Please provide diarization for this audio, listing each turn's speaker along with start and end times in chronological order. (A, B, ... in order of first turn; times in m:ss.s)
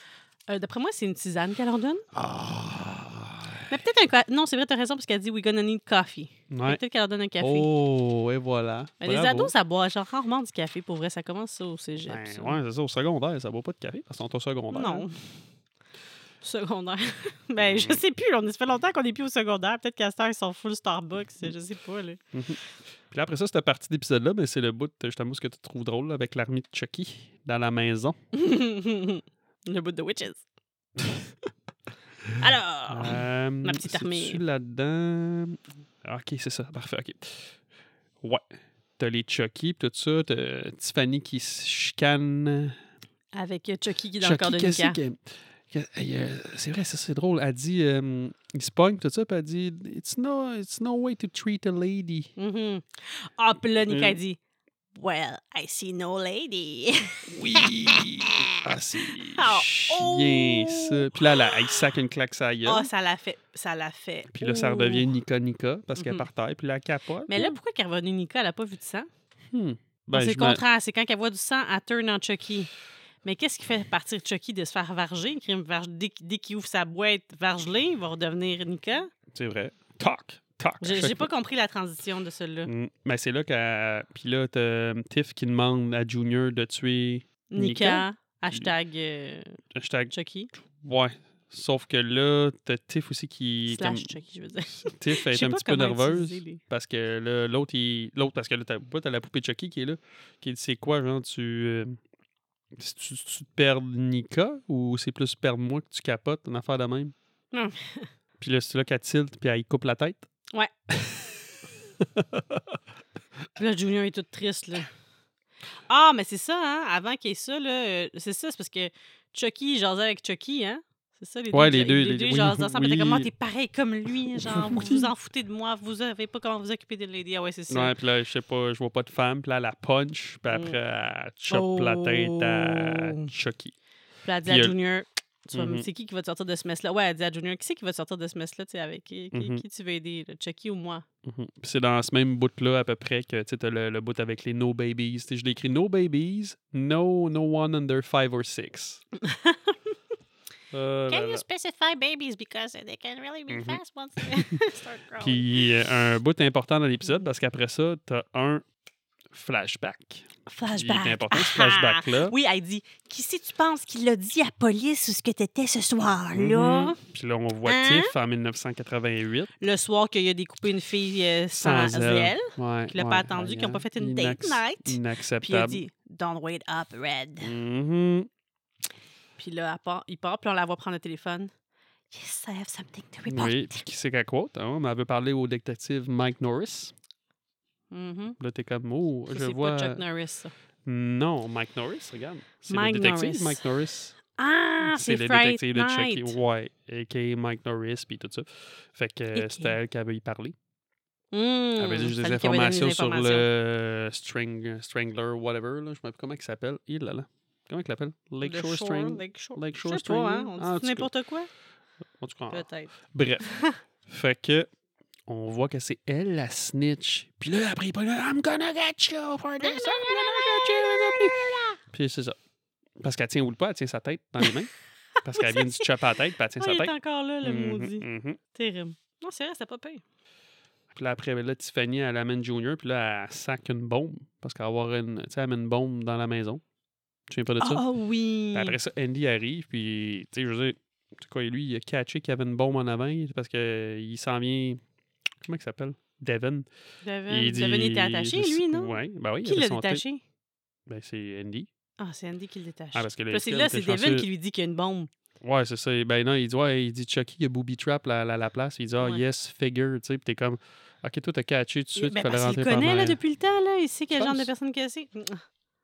0:00.5-0:02.0 A
0:02.1-0:03.7 B
0:03.7-0:07.7 A
0:06.5-0:06.8 B
0:07.4-0:09.5 B
0:09.0-0:12.6 A
0:12.0-0:15.1 B
0:14.7-0:15.3 A
0:16.4-0:22.2 A
0:17.6-0:18.0 B
0:22.3-0:28.2 B
0:28.3-0:30.4 A
0:32.4-0:34.4 A
0:32.9-0:37.6 B
0:38.2-0:42.8 B
0:43.3-0:45.0 A
0:44.2-0:52.3 B
0:52.4-0:54.4 A
0:53.9-0:54.2 B
0:54.9-0:58.3 A
0:57.3-1:02.9 B
0:59.2-1:01.8 A
1:02.6-1:05.1 A
1:04.3-1:07.6 B
1:06.0-1:06.2 A
1:07.3-1:09.1 A
1:09.5-1:10.6 B
1:10.1-1:12.7 A
1:13.2-1:19.1 A
1:19.3-1:21.3 B
1:20.8-1:22.7 A
1:22.6-1:28.7 B
1:27.5-1:30.5 A
1:29.7-1:34.1 B
1:33.7-1:36.6 A
1:34.8-1:42.0 B
1:42.7-1:47.1 B
1:47.5-1:48.1 A
1:48.4-1:50.2 B
1:50.9-1:51.3 B
1:52.0-1:52.8 B
1:53.6-1:54.9 A
1:55.9-2:07.9 A
2:01.5-2:03.3 B
2:04.4-2:05.1 B
2:07.7-2:13.7 B
2:10.5-2:10.8 A
2:11.5-2:13.3 A
2:14.2-2:21.0 A
2:14.4-2:14.7 B
2:15.5-2:15.9 B
2:19.3-2:19.6 B
2:21.2-2:29.0 B
2:29.2-2:29.9 A
2:30.7-2:31.4 B
2:31.1-2:35.5 A
2:33.5-2:34.5 B
2:35.2-2:38.6 B
2:39.3-2:42.3 B
2:40.5-2:47.0 A
2:46.3-2:49.5 B
2:47.6-2:48.1 A
2:49.6-2:57.5 A
2:51.5-2:55.8 B
2:57.4-2:58.3 B
2:59.4-3:01.5 A
3:02.1-3:03.8 A
3:03.2-3:06.9 B
3:07.9-3:08.4 A
3:08.4-3:10.0 B
3:09.3-3:10.5 A
3:10.8-3:14.2 B
3:12.7-3:13.6 A
3:14.4-3:16.4 A
3:14.8-3:20.6 B
3:19.3-3:19.7 A
3:21.3-3:23.5 A
3:21.8-3:31.1 B
3:28.4-3:31.5 A
3:32.2-3:33.5 B
3:32.5-3:33.8 A
3:34.0-3:34.7 B
3:35.3-3:42.4 B
3:39.6-3:41.8 A
3:43.0-3:46.9 B
3:45.3-3:45.9 A
3:46.6-3:50.0 A
3:47.4-3:48.4 B
3:50.9-3:56.6 B
3:57.3-3:57.8 B
3:57.6-3:58.8 A
3:58.5-4:04.8 B
4:05.4-4:06.7 B
4:07.0-4:10.2 A
4:07.3-4:10.0 B
4:10.9-4:11.7 B
4:12.0-4:15.1 A
4:12.9-4:14.3 B
4:15.4-4:23.2 B
4:22.0-4:25.4 A
4:24.1-4:24.5 B